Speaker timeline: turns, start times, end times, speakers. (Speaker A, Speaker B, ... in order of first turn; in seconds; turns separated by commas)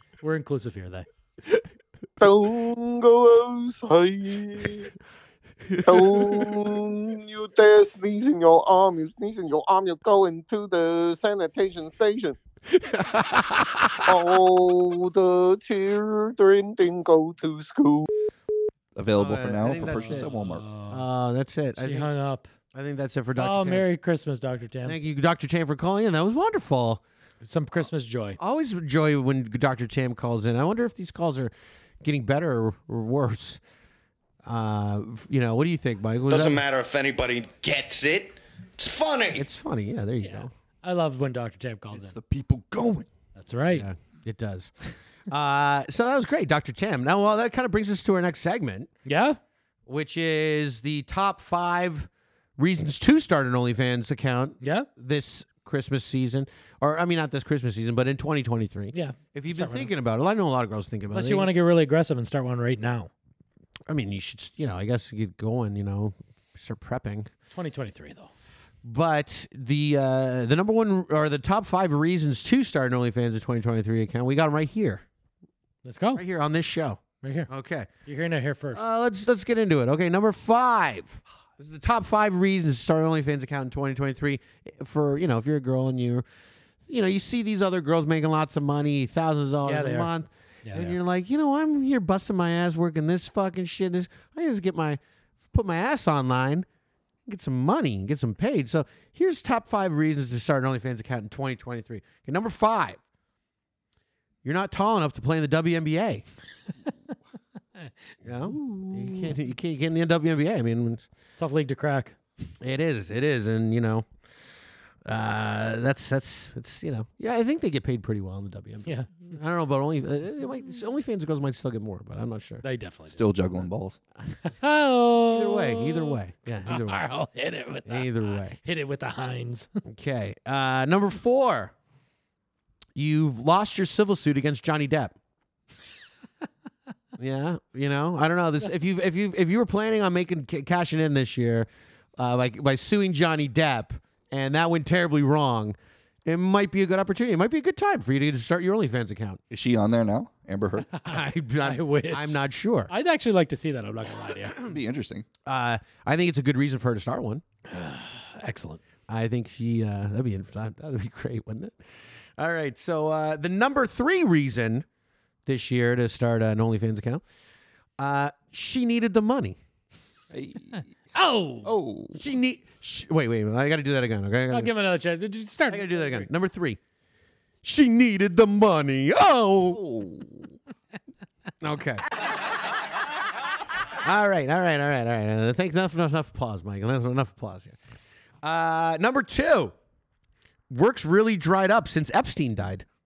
Speaker A: 0.2-1.1, Speaker B: 2.2-4.9, Speaker C: 5.6-6.8, Speaker B: 5.8-12.4, Speaker C: 12.7-14.4, Speaker B: 14.1-18.1, Speaker D: 18.9-20.7, Speaker C: 19.1-22.1, Speaker A: 19.9-21.1, Speaker A: 21.8-22.5, Speaker C: 22.7-23.9, Speaker A: 23.4-25.0, Speaker C: 24.8-27.0, Speaker A: 27.4-28.4, Speaker C: 28.4-33.6, Speaker C: 34.4-36.7, Speaker E: 36.3-39.2, Speaker C: 39.3-40.5, Speaker A: 40.2-42.2, Speaker D: 41.9-43.1, Speaker A: 43.4-43.9, Speaker C: 43.7-44.7, Speaker C: 45.3-48.9, Speaker A: 49.0-49.4, Speaker C: 49.9-61.5, Speaker A: 54.6-54.9, Speaker A: 58.9-59.9, Speaker A: 61.1-63.1, Speaker C: 63.9-67.3, Speaker A: 67.5-68.3, Speaker C: 68.8-75.0, Speaker A: 75.8-76.2, Speaker C: 76.1-77.9, Speaker A: 77.2-77.5, Speaker A: 78.0-78.8, Speaker C: 78.7-86.2, Speaker C: 86.8-96.7, Speaker A: 89.6-90.1, Speaker A: 90.6-91.0, Speaker C: 97.2-103.0, Speaker C: 104.4-106.2, Speaker C: 108.2-111.0, Speaker A: 108.7-109.2, Speaker A: 111.4-112.2, Speaker C: 112.6-114.0, Speaker C: 115.0-122.6, Speaker A: 118.8-119.3, Speaker A: 122.6-123.2, Speaker D: 123.1-124.0, Speaker A: 124.4-129.7, Speaker C: 125.3-127.0, Speaker C: 127.8-128.6, Speaker C: 129.9-131.7, Speaker C: 132.9-135.2, Speaker C: 137.2-149.4, Speaker D: 149.5-151.0, Speaker C: 151.0-152.9, Speaker A: 151.0-152.4, Speaker A: 152.9-154.6, Speaker D: 154.6-155.2, Speaker C: 155.4-157.4, Speaker A: 157.7-158.8, Speaker C: 159.1-164.8, Speaker C: 165.4-167.2, Speaker C: 168.0-169.6, Speaker D: 170.3-170.9, Speaker A: 171.1-171.7, Speaker D: 171.6-172.2, Speaker C: 172.1-174.7, Speaker A: 174.5-176.3, Speaker C: 175.7-176.8, Speaker C: 177.6-179.8, Speaker D: 179.7-180.5, Speaker C: 181.6-182.0, Speaker C: 184.0-187.8, Speaker C: 188.4-189.7, Speaker C: 190.7-192.8